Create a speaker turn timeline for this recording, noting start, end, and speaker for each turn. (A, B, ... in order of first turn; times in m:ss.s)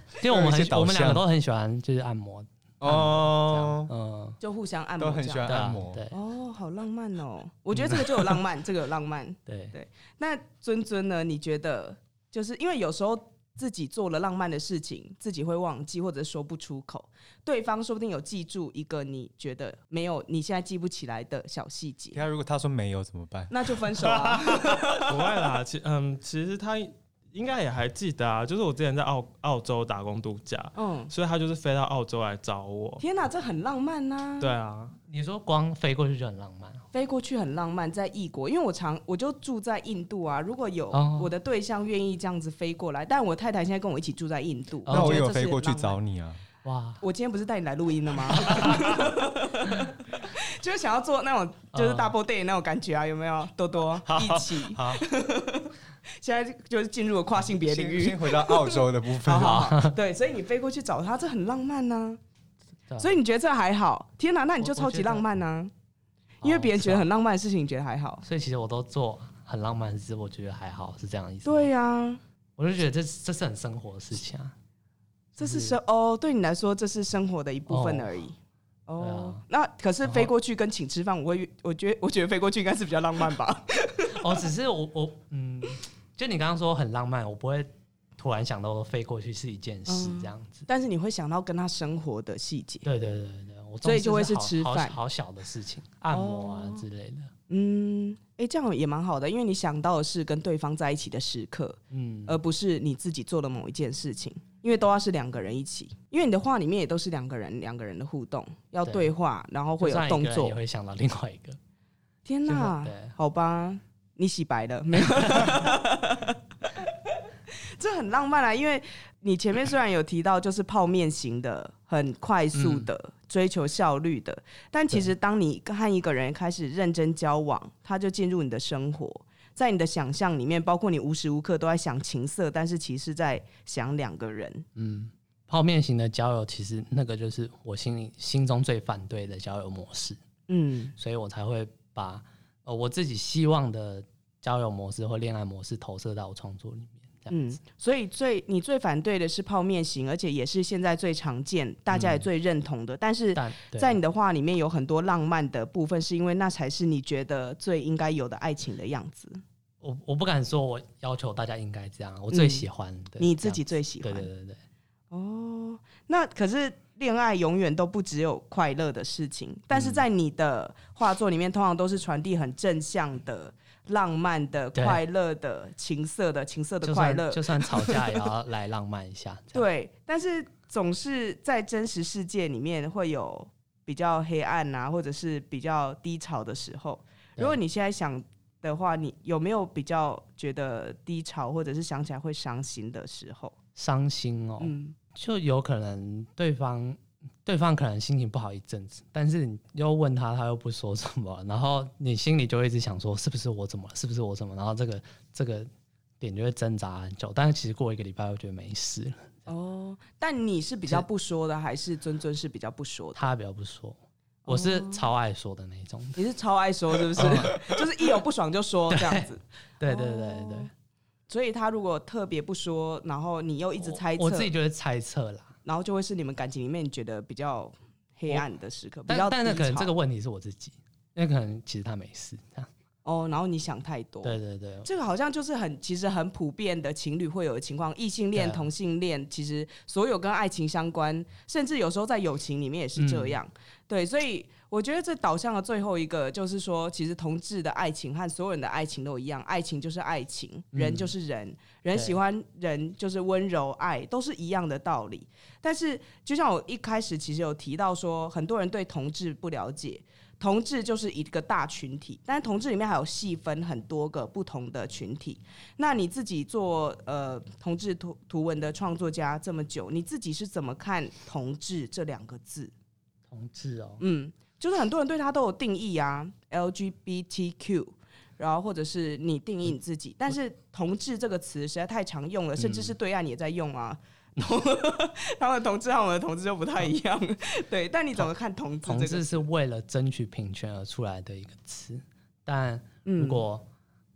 0:00.2-0:04.4 A
0:00.2-0:01.2 B
0:02.8-0:03.9 B
0:04.4-0:22.2 C
0:05.0-0:06.0 B
0:05.4-0:06.2 A
0:07.8-0:08.2 A
0:09.5-0:09.7 A
0:22.1-0:24.6 B
0:23.5-0:25.1 C
0:25.0-0:33.0 D
0:30.7-0:31.1 C
0:33.0-0:34.5 C
0:34.4-0:34.9 D
0:35.1-0:36.8 A
0:36.9-0:46.0 C
0:40.9-0:41.3 A
0:44.8-0:45.3 A
0:44.9-0:46.4 B
0:46.6-0:47.0 A
0:47.0-1:02.2 C
0:48.5-0:48.8 B
0:51.7-0:52.1 A
0:54.1-0:55.0 B
0:57.6-0:59.6 B
0:59.3-1:00.0 A
1:03.0-1:05.7 C
1:04.6-1:05.3 A
1:06.4-1:07.0 A
1:06.4-1:08.2 C
1:08.2-1:11.7 A
1:11.4-1:12.2 C
1:12.6-1:14.5 A
1:15.4-1:18.3 C
1:15.4-1:15.8 A
1:17.7-1:18.1 A
1:18.9-1:24.3 C
1:19.0-1:19.4 A
1:20.0-1:20.3 A
1:24.1-1:30.6 A
1:29.9-1:32.9 C
1:32.8-1:37.3 A
1:33.8-1:35.0 C
1:36.1-1:36.8 C
1:37.5-1:50.6 C
1:41.9-1:42.4 A
1:48.8-1:49.1 A
1:49.8-1:51.6 A
1:52.2-1:56.9 C
1:52.5-1:53.1 A
1:55.2-1:55.5 A
1:57.8-2:14.6 C
2:02.5-2:02.9 A
2:14.7-2:20.2 A
2:20.5-2:20.9 C
2:21.0-2:27.4 A
2:27.3-2:39.4 C
2:31.9-2:32.2 A
2:33.3-2:34.0 A
2:39.8-2:44.6 A
2:42.3-2:42.6 C
2:43.2-2:44.3 C
2:45.1-2:58.0 C
2:49.7-2:50.0 A
2:54.7-2:55.0 A
2:56.8-2:59.6 A
2:59.5-3:13.5 C
3:13.8-3:25.7 A
3:14.6-3:15.0 C
3:26.2-3:29.5 A
3:29.5-3:33.3 C
3:33.1-3:36.2 A
3:34.4-3:35.0 C
3:36.2-3:40.7 C
3:37.2-3:37.7 A
3:38.9-3:39.3 A
3:39.8-3:40.7 A
3:41.3-3:44.5 C
3:43.8-3:45.5 A
3:45.6-3:49.9 C
3:49.1-3:52.7 A
3:53.0-4:32.7 C
3:54.2-3:54.9 A
3:58.3-3:58.7 A
4:03.0-4:03.4 A
4:10.7-4:11.1 A
4:33.3-4:34.0 A
4:34.0-4:49.4 C
4:42.6-4:42.9 A
4:48.8-4:53.7 A
4:53.0-4:53.4 C